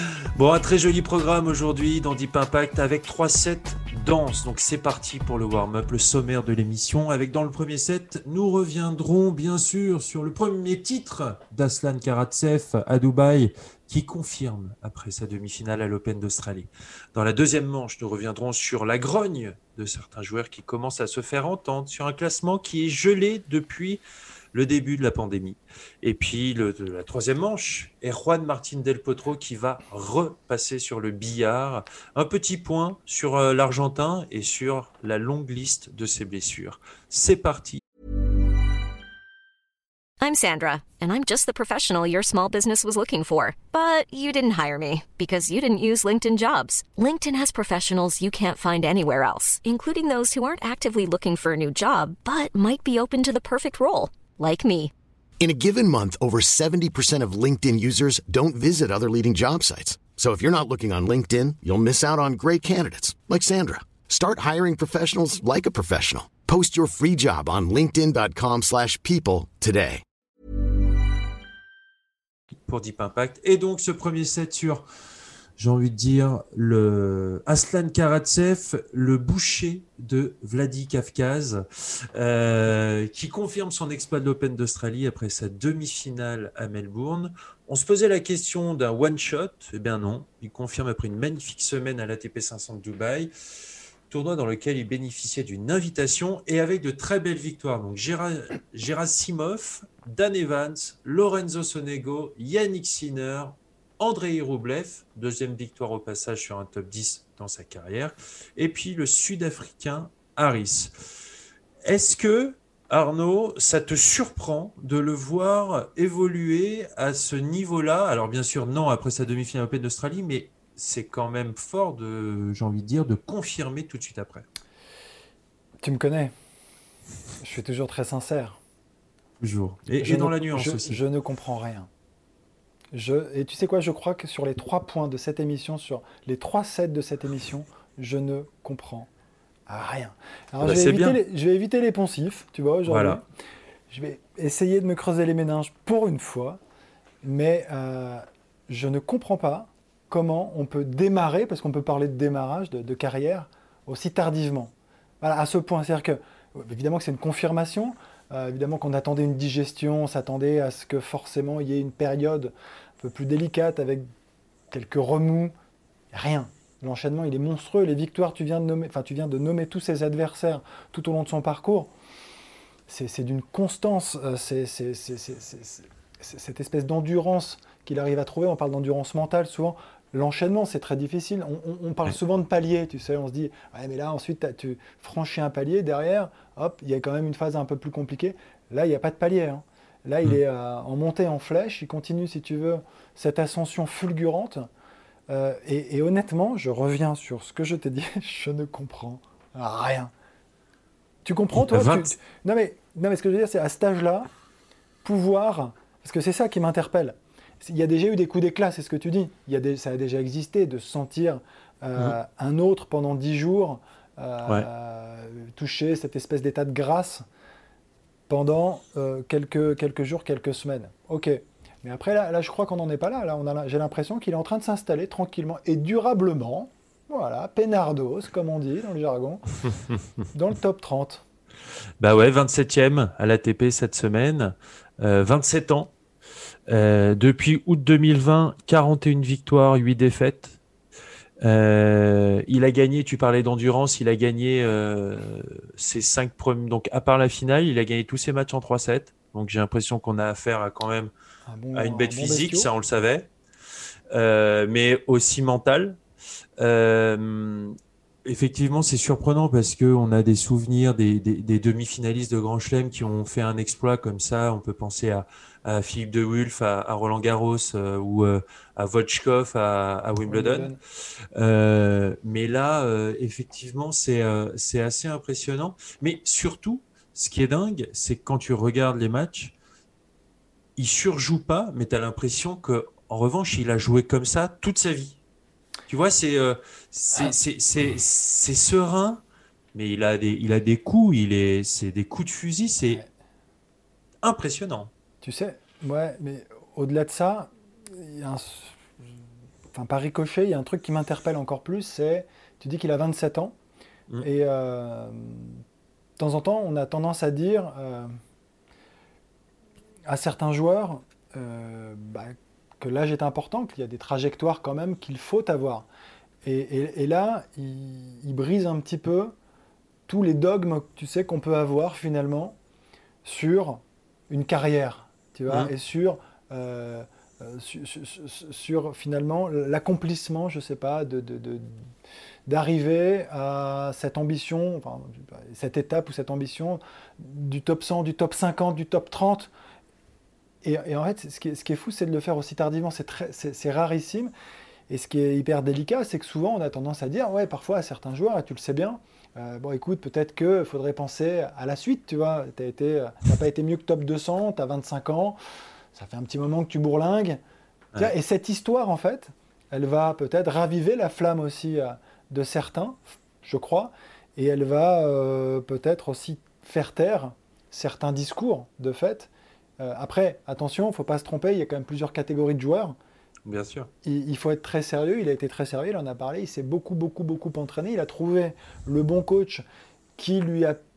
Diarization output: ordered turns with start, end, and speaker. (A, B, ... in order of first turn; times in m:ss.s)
0:00.4-0:24.0 A
0:24.5-0:37.8 A
0:40.2-0:54.9 B
0:55.4-1:10.0 C
1:12.7-1:14.9 A
1:15.6-1:33.3 A
1:34.1-1:50.9 A
1:51.8-2:04.4 A
2:05.8-2:06.3 D
2:07.4-2:08.6 D
2:09.4-2:11.0 A
2:10.0-2:11.9 D
2:12.9-2:19.1 D
2:19.7-2:23.2 D
2:20.6-2:21.2 A
2:22.8-2:23.2 A
2:23.9-2:26.6 D
2:27.2-2:44.1 D
2:44.7-2:45.5 D
2:46.1-2:51.9 D
2:52.9-3:14.7 D
3:15.3-3:20.1 D
3:21.2-3:24.3 D
3:21.5-3:22.1 A
3:25.0-3:37.2 D
3:38.3-3:49.6 D
3:50.3-3:51.2 D
3:52.0-3:55.9 A
3:56.7-4:00.6 A
4:01.4-4:11.1 A
4:11.5-4:12.7 D
4:11.7-4:13.3 A
4:14.1-4:16.0 A
4:16.6-4:30.7 A
4:30.2-4:30.8 D
4:31.4-4:39.5 A
4:40.8-4:45.2 A
4:45.9-4:49.2 A
4:49.7-4:53.0 A
4:54.2-4:54.9 A
4:55.2-4:59.2 D
4:59.7-5:03.6 D
5:04.2-5:05.6 D
5:06.2-5:08.1 D
5:10.0-5:15.9 D
5:16.4-5:19.3 D
5:20.1-5:22.6 D
5:23.2-5:31.9 D
5:32.5-5:39.5 D
5:40.6-5:44.3 D
5:44.9-5:55.4 D
5:55.9-5:57.4 D
5:58.0-6:13.0 D
6:13.4-6:13.9 A
6:14.0-6:19.6 D
6:20.2-6:20.8 D